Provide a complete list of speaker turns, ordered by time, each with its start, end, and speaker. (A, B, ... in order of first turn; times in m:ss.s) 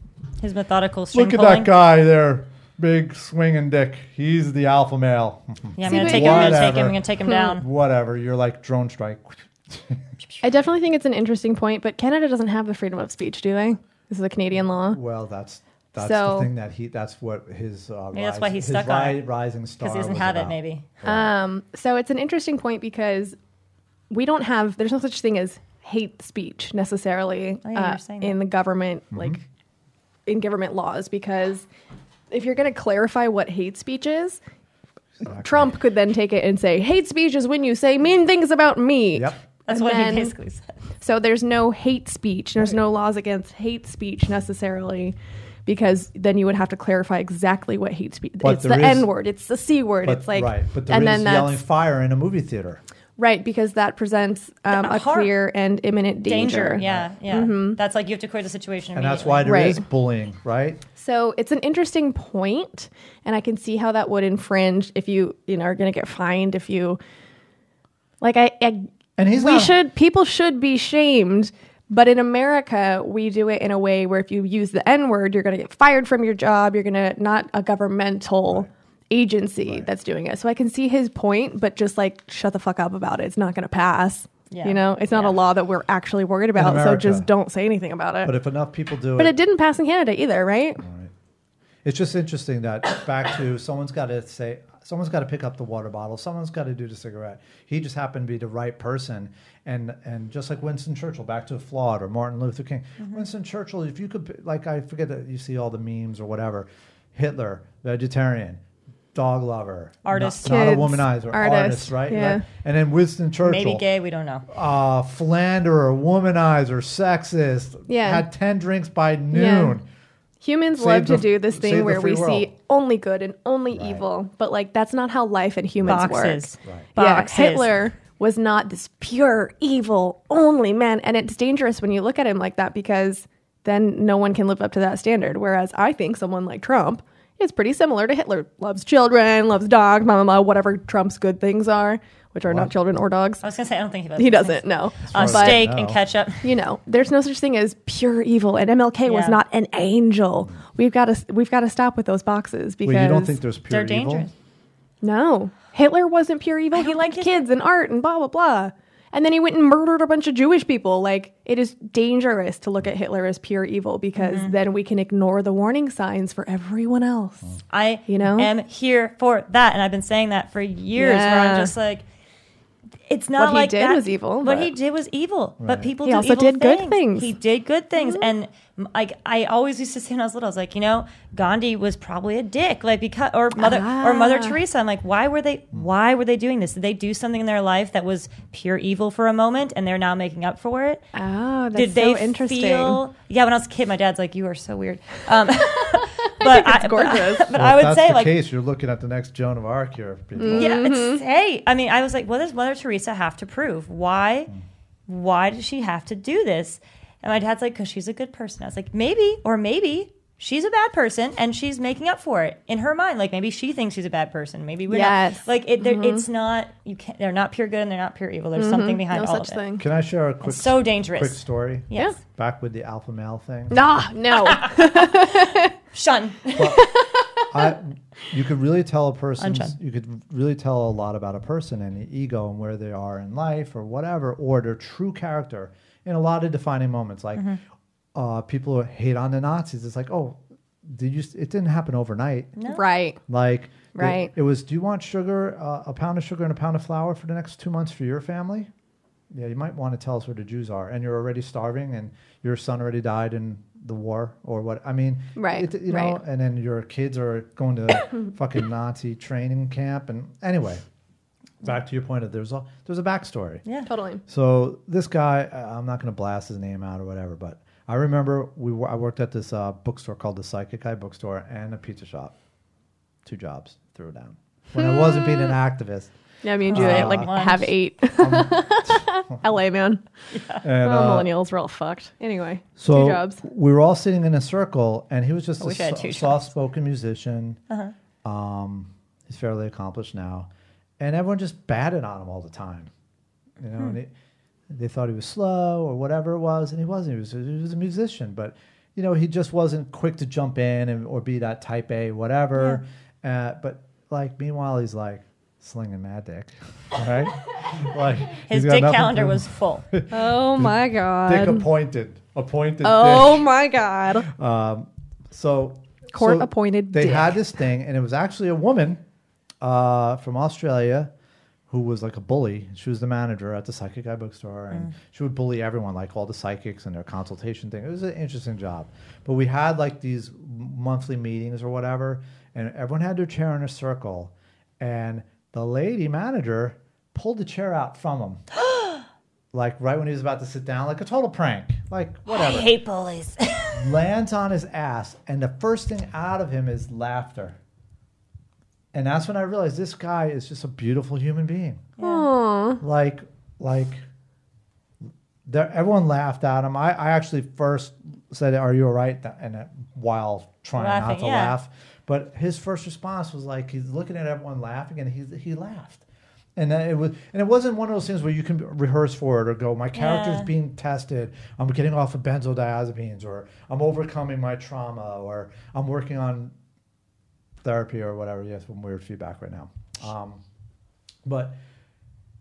0:00.4-0:01.7 A
0:01.1-0:10.1 B
0:05.8-0:07.6 A
0:05.8-0:06.8 C
0:10.4-0:15.0 C
0:14.9-0:21.3 B
0:16.0-0:16.5 C
0:18.1-0:19.2 A
0:19.8-0:20.8 A
0:21.0-0:23.4 C
0:24.1-0:29.4 C
0:27.6-0:28.4 A
0:29.1-0:29.4 B
0:30.3-0:31.6 C
0:32.3-0:34.4 C
0:35.2-0:35.7 B
0:35.3-0:40.3 C
0:39.1-0:39.4 B
0:39.7-0:40.7 A
0:41.0-0:51.6 C
0:48.4-0:49.1 B
0:50.0-0:52.8 B
0:53.2-0:57.8 C
0:54.7-0:55.3 A
0:56.2-0:59.7 A
0:56.8-0:57.1 B
0:58.9-1:00.8 B
0:59.4-0:59.8 C
1:01.0-1:07.0 C
1:08.2-1:28.3 C
1:09.2-1:09.8 B
1:19.6-1:19.9 B
1:24.5-1:25.4 A
1:26.5-1:27.3 B
1:28.2-1:29.4 B
1:29.2-1:30.8 C
1:30.8-1:31.1 B
1:31.8-1:48.6 B
1:49.1-1:53.8 B
1:50.0-1:50.9 A
1:50.4-1:52.4 C
1:53.4-1:54.4 A
1:54.5-1:59.8 B
1:57.9-1:58.2 C
1:59.3-1:59.8 C
2:00.4-2:23.4 C
2:00.7-2:02.5 B
2:03.7-2:04.0 B
2:05.8-2:07.7 A
2:22.5-2:22.7 B
2:23.4-2:26.5 A
2:24.2-2:25.7 C
2:25.1-2:26.0 B
2:26.4-2:33.4 C
2:29.0-2:29.4 A
2:32.8-2:34.3 B
2:33.7-2:34.3 A
2:35.0-2:47.5 C
2:36.7-2:37.4 A
2:44.2-2:44.5 A
2:47.7-2:52.0 A
2:48.1-2:48.5 C
2:51.0-2:51.7 C
2:53.1-3:11.1 A
2:53.4-2:54.7 C
2:55.6-2:55.9 B
2:56.0-2:57.3 C
2:58.0-2:58.3 C
3:03.6-3:04.6 C
3:11.1-3:13.0 C
3:11.7-3:18.3 A
3:15.4-3:17.5 C
3:17.5-3:20.8 B
3:20.4-3:21.2 C
3:20.5-3:24.5 A
3:25.1-3:39.6 A
3:34.9-3:36.2 C
3:38.6-3:39.8 C
3:39.8-3:43.8 B
3:40.4-3:42.2 A
3:43.7-3:45.7 C
3:44.3-3:46.8 A
3:46.6-3:46.8 B
3:46.6-3:47.7 C
3:47.5-3:57.5 B
3:49.4-3:49.7 A
3:58.1-4:02.5 B
4:02.6-4:02.8 A
4:02.6-4:03.2 C
4:03.3-4:08.7 B
4:03.9-4:04.3 C
4:09.3-4:20.8 B
4:15.4-4:16.2 C
4:21.6-4:23.6 B
4:23.8-4:24.2 C
4:24.3-4:32.3 B
4:33.2-4:36.1 B
4:36.4-4:40.0 C
4:36.7-4:37.7 A
4:36.7-4:37.3 B
4:38.2-4:39.4 B
4:40.3-4:40.6 A
4:40.6-4:41.3 B
4:40.8-4:43.4 C
4:42.8-4:47.6 B
4:45.6-4:46.4 A
4:48.2-4:50.5 B
4:51.0-4:52.9 B
4:53.6-4:54.1 B
4:54.7-5:13.5 B
5:08.5-5:09.8 A
5:10.1-5:11.6 C
5:12.8-5:14.3 C
5:14.2-5:19.0 B
5:16.1-5:17.4 C
5:19.6-5:21.1 B
5:21.7-5:38.4 B
5:38.6-5:39.0 A
5:39.5-5:42.8 B
5:42.3-5:43.9 A
5:43.7-5:47.6 B
5:48.9-5:51.9 B
5:52.0-5:52.3 A
5:52.0-5:52.8 C
5:52.8-5:54.0 B
5:55.4-6:06.0 B
6:00.8-6:01.6 A
6:06.6-6:16.5 B
6:09.9-6:10.5 A
6:17.6-6:20.4 B
6:21.2-6:21.6 B